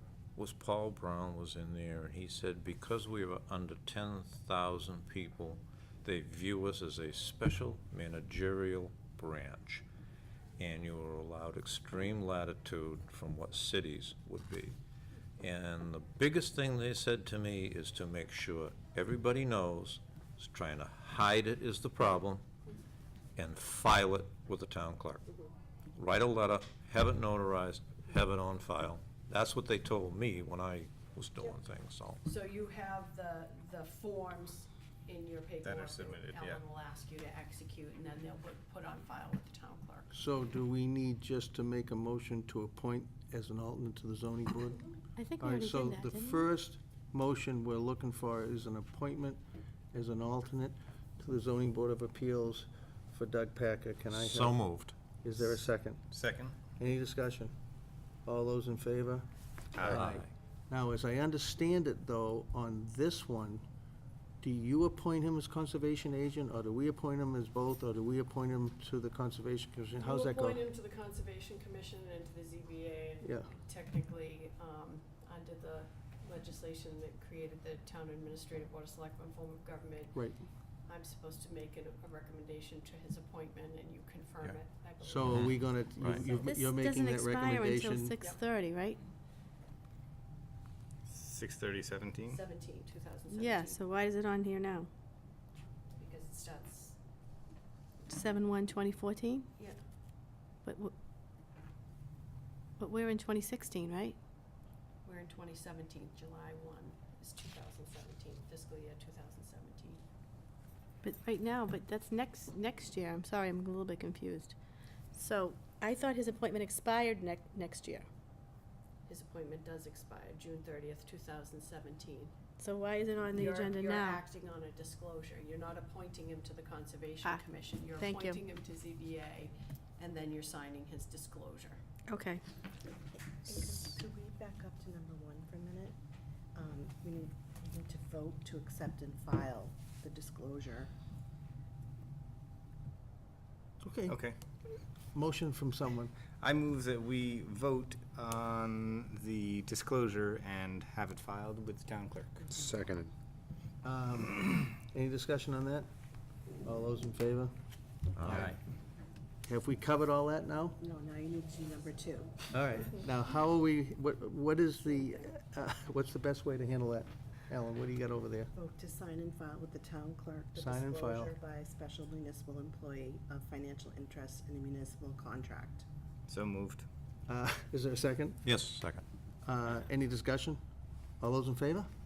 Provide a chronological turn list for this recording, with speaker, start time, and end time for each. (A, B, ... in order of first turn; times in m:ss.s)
0:00.4-0:09.8 A
0:10.6-0:14.8 A
0:15.4-0:22.4 A
0:23.4-0:25.2 A
0:26.0-0:32.2 A
0:32.2-0:40.1 B
0:35.6-0:36.6 C
0:40.1-0:44.9 D
0:45.2-0:46.4 E
0:45.4-0:49.4 D
0:49.9-0:56.0 D
0:54.1-0:55.0 A
0:56.1-0:56.6 C
0:56.8-0:57.5 D
0:58.2-1:03.6 D
0:59.7-1:00.1 C
0:59.8-1:00.3 A
1:04.4-1:10.6 D
1:10.0-1:20.3 B
1:13.2-1:13.5 D
1:20.2-1:20.4 D
1:20.9-1:25.6 B
1:25.0-1:28.2 D
1:25.3-1:26.2 A
1:26.4-1:29.0 E
1:31.1-1:32.4 C
1:32.3-1:34.0 B
1:33.3-1:34.9 E
1:36.0-1:37.0 B
1:38.1-1:39.5 E
1:40.6-1:40.9 E
1:42.8-1:44.2 E
1:45.0-1:50.0 B
1:51.0-1:54.6 E
1:55.1-1:58.1 E
1:59.1-2:02.3 B
2:02.6-2:04.2 E
2:03.3-2:11.8 B
2:07.2-2:08.4 E
2:12.1-2:12.4 E
2:13.2-2:16.0 F
2:16.6-2:20.9 F
2:23.8-2:24.2 D
2:24.1-2:24.4 C
2:25.1-2:26.1 D
2:26.4-2:32.5 C
2:33.8-2:35.9 D
2:36.6-2:37.5 D
2:38.2-2:38.5 A
2:38.2-2:38.5 D
2:38.3-2:38.6 C
2:39.5-2:40.8 D
2:40.8-2:42.5 F
2:42.5-2:48.5 D
2:48.5-2:55.8 F
2:50.5-2:51.3 D
2:56.3-2:56.9 C
2:57.3-2:58.4 D
2:58.4-2:59.0 A
2:59.4-3:00.6 D
3:01.2-3:01.9 D